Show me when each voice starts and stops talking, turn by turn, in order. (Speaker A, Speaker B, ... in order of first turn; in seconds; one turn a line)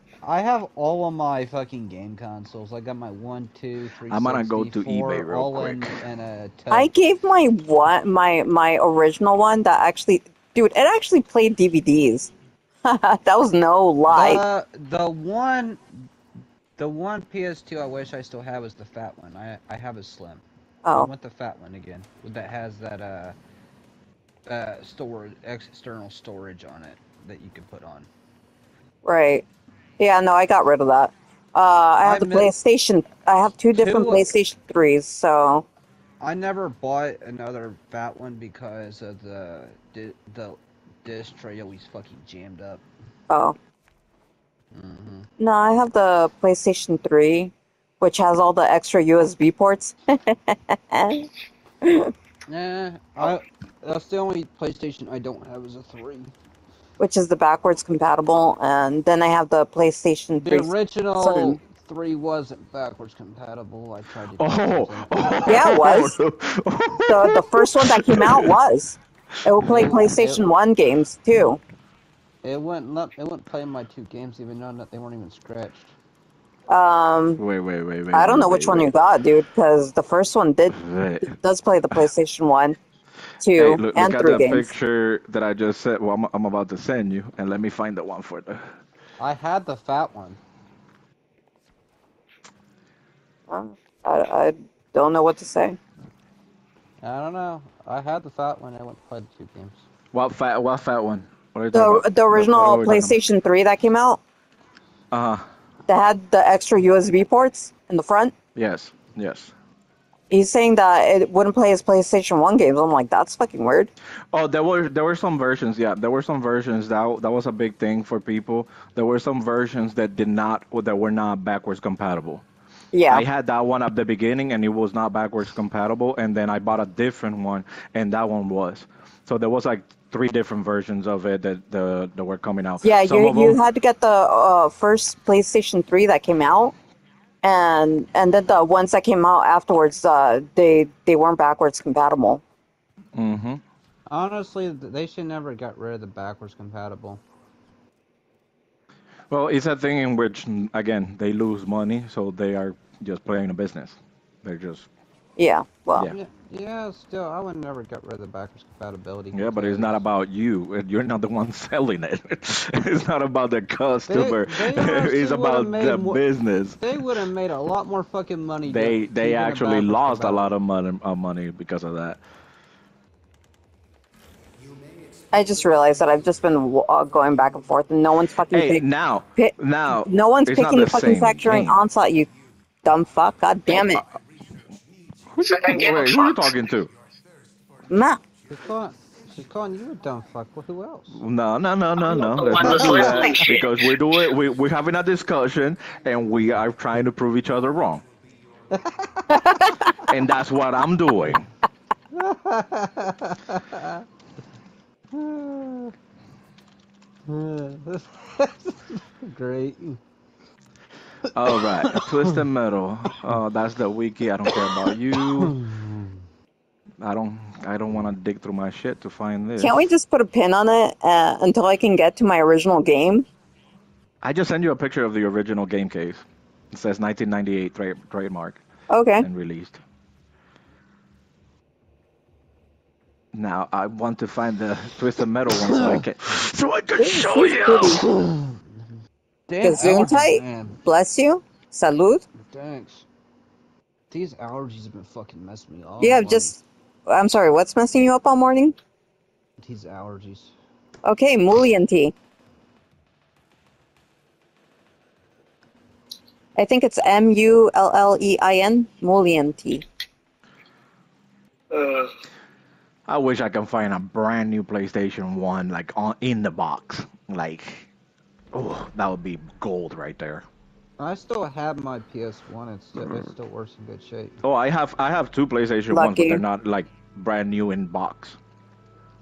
Speaker A: 0.2-6.9
Speaker B: 4.1-6.0
Speaker C: 6.7-12.3
Speaker C: 12.8-14.4
Speaker A: 14.1-15.8
Speaker A: 16.8-23.4
Speaker A: 24.5-28.1
Speaker C: 29.0-29.4
Speaker C: 30.0-35.6
Speaker A: 32.0-32.5
Speaker A: 33.8-34.3
Speaker A: 36.2-42.8
Speaker C: 43.3-43.6
Speaker A: 44.7-45.3
Speaker C: 45.4-51.3
Speaker C: 51.8-52.1
Speaker A: 52.5-56.3
Speaker C: 57.0-61.6
Speaker A: 60.4-65.8
Speaker B: 64.4-68.5
Speaker C: 65.5-66.2
Speaker C: 67.1-71.6
Speaker A: 69.6-70.4
Speaker A: 72.4-75.9
Speaker C: 76.7-77.4
Speaker B: 77.4-78.9
Speaker C: 78.1-82.8
Speaker B: 80.7-81.3
Speaker C: 83.4-84.7
Speaker B: 83.5-88.7
Speaker A: 89.2-90.4
Speaker C: 93.5-95.8
Speaker A: 97.0-99.8
Speaker B: 100.1-103.2
Speaker C: 101.7-104.2
Speaker B: 105.1-105.5
Speaker C: 105.9-108.3
Speaker B: 108.5-109.5
Speaker C: 110.3-113.9
Speaker B: 114.3-122.5
Speaker C: 122.9-123.2
Speaker B: 123.1-133.6
Speaker C: 132.8-136.7
Speaker C: 137.4-142.4
Speaker B: 143.1-143.6
Speaker A: 144.1-147.2
Speaker B: 149.3-154.9
Speaker C: 155.4-156.1
Speaker A: 156.1-160.0
Speaker B: 159.3-167.1
Speaker A: 164.1-166.2
Speaker A: 166.8-170.5
Speaker B: 168.6-172.2
Speaker C: 175.3-178.8
Speaker B: 178.5-181.8
Speaker C: 179.4-182.3
Speaker C: 182.8-184.1
Speaker B: 185.3-186.9
Speaker D: 185.4-186.6
Speaker C: 187.9-188.2
Speaker A: 188.5-191.2
Speaker B: 191.1-198.0
Speaker D: 192.1-193.8
Speaker A: 192.5-193.6
Speaker A: 198.7-199.7
Speaker B: 199.9-201.5
Speaker A: 202.1-204.1
Speaker A: 205.1-205.9
Speaker A: 207.3-210.0
Speaker B: 211.3-215.6
Speaker A: 211.6-212.4
Speaker A: 214.5-216.1
Speaker B: 217.0-219.8
Speaker C: 219.6-223.3
Speaker B: 224.2-228.6
Speaker C: 228.9-229.3
Speaker B: 229.2-229.8
Speaker B: 233.3-238.1
Speaker A: 235.7-236.0
Speaker C: 237.0-238.0
Speaker A: 238.1-238.6
Speaker A: 239.5-240.8
Speaker C: 239.6-242.2
Speaker A: 242.4-243.1
Speaker A: 244.1-246.6
Speaker C: 246.0-248.8
Speaker A: 249.6-250.5
Speaker C: 251.1-252.1
Speaker C: 256.6-259.9
Speaker D: 261.7-262.1
Speaker B: 263.1-267.9
Speaker B: 268.5-270.5
Speaker A: 271.0-274.4
Speaker B: 274.4-278.4
Speaker C: 275.9-276.4